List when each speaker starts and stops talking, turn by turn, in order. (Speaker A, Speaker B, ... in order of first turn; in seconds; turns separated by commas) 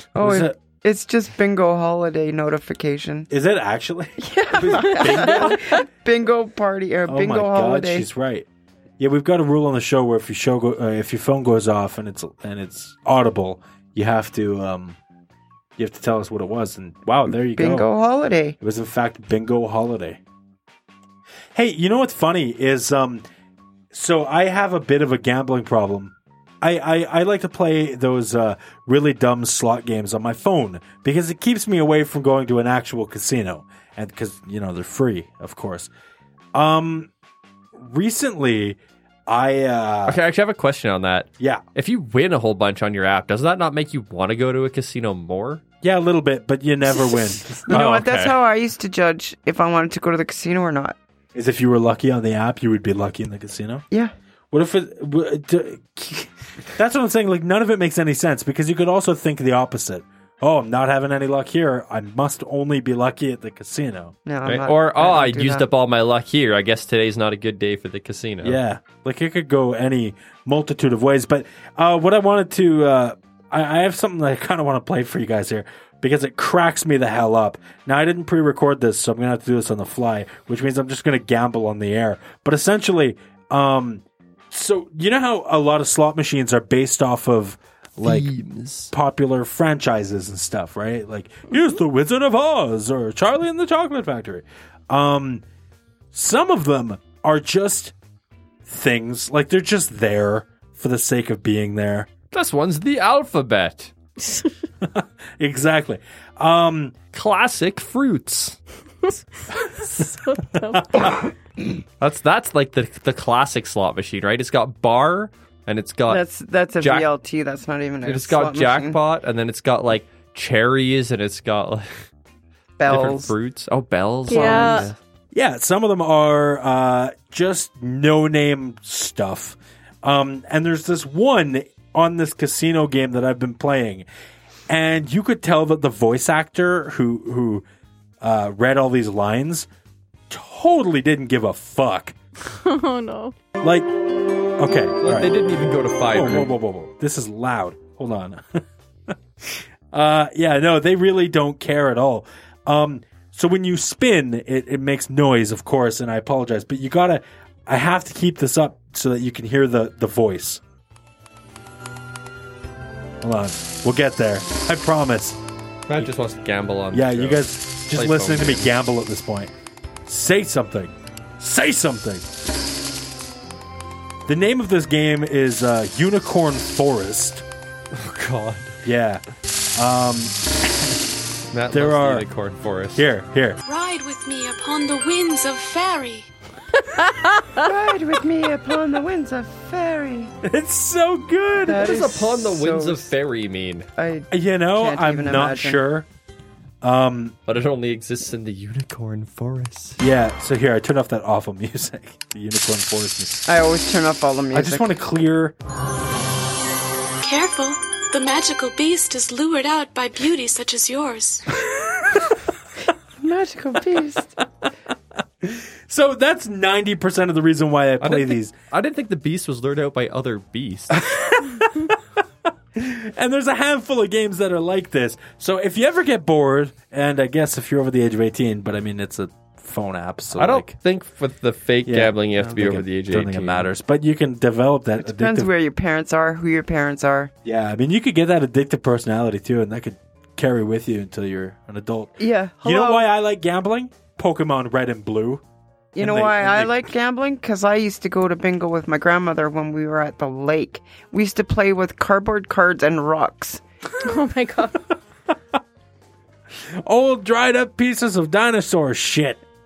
Speaker A: 0.1-3.3, Speaker B: 0.2-0.5, Speaker B: 3.3-5.8, Speaker A: 4.2-8.1, Speaker B: 7.1-8.4, Speaker B: 9.0-15.0, Speaker B: 15.8-17.9, Speaker A: 17.3-18.6, Speaker B: 18.6-20.2, Speaker B: 21.5-23.2, Speaker B: 23.9-35.9, Speaker B: 36.5-37.1, Speaker B: 37.8-40.2, Speaker C: 40.0-45.6, Speaker B: 45.8-48.0, Speaker A: 47.1-51.0, Speaker C: 47.7-48.3, Speaker B: 51.3-53.8, Speaker B: 54.5-64.1, Speaker A: 64.3-65.7, Speaker C: 64.4-68.6, Speaker B: 68.4-88.3, Speaker C: 88.0-88.9, Speaker B: 88.9-95.4, Speaker B: 96.1-97.9, Speaker B: 98.7-102.1, Speaker C: 102.3-103.9, Speaker B: 104.8-106.9, Speaker C: 107.1-108.6, Speaker D: 109.7-111.2, Speaker B: 110.0-111.3, Speaker C: 112.0-116.2, Speaker A: 116.1-119.0, Speaker C: 116.8-117.1, Speaker C: 118.0-121.9, Speaker A: 122.8-123.3, Speaker C: 122.9-125.0, Speaker D: 124.3-124.9, Speaker A: 124.3-124.9, Speaker B: 125.3-134.1, Speaker B: 134.7-137.6, Speaker B: 138.2-139.7, Speaker B: 140.3-142.1, Speaker D: 142.5-143.3, Speaker B: 143.6-143.9, Speaker B: 144.6-145.3, Speaker C: 145.0-146.5, Speaker B: 146.1-160.6, Speaker B: 163.2-165.4, Speaker C: 165.9-168.7, Speaker B: 166.9-169.5, Speaker B: 170.1-172.3, Speaker B: 174.3-177.4, Speaker C: 177.9-178.8, Speaker B: 178.8-179.2, Speaker B: 179.7-181.0, Speaker C: 181.5-183.1, Speaker B: 181.7-182.2, Speaker B: 182.9-183.6, Speaker E: 183.6-186.3, Speaker D: 187.1-187.5, Speaker A: 187.6-190.3, Speaker B: 190.4-191.9, Speaker A: 191.6-193.1, Speaker C: 191.7-193.9, Speaker A: 193.9-195.8, Speaker B: 194.3-196.1, Speaker B: 196.8-197.4, Speaker C: 197.5-200.0, Speaker B: 200.0-203.4, Speaker A: 203.5-204.9, Speaker B: 204.5-205.6, Speaker E: 207.2-211.4, Speaker A: 213.2-214.3, Speaker B: 215.4-218.5, Speaker C: 218.0-221.0, Speaker B: 220.9-222.0, Speaker B: 222.8-230.7, Speaker C: 230.3-233.7, Speaker B: 231.9-235.5, Speaker A: 235.0-237.3, Speaker B: 237.4-245.4, Speaker A: 242.2-243.1, Speaker A: 245.9-253.6, Speaker B: 246.0-246.8, Speaker D: 254.0-254.9, Speaker B: 256.8-259.4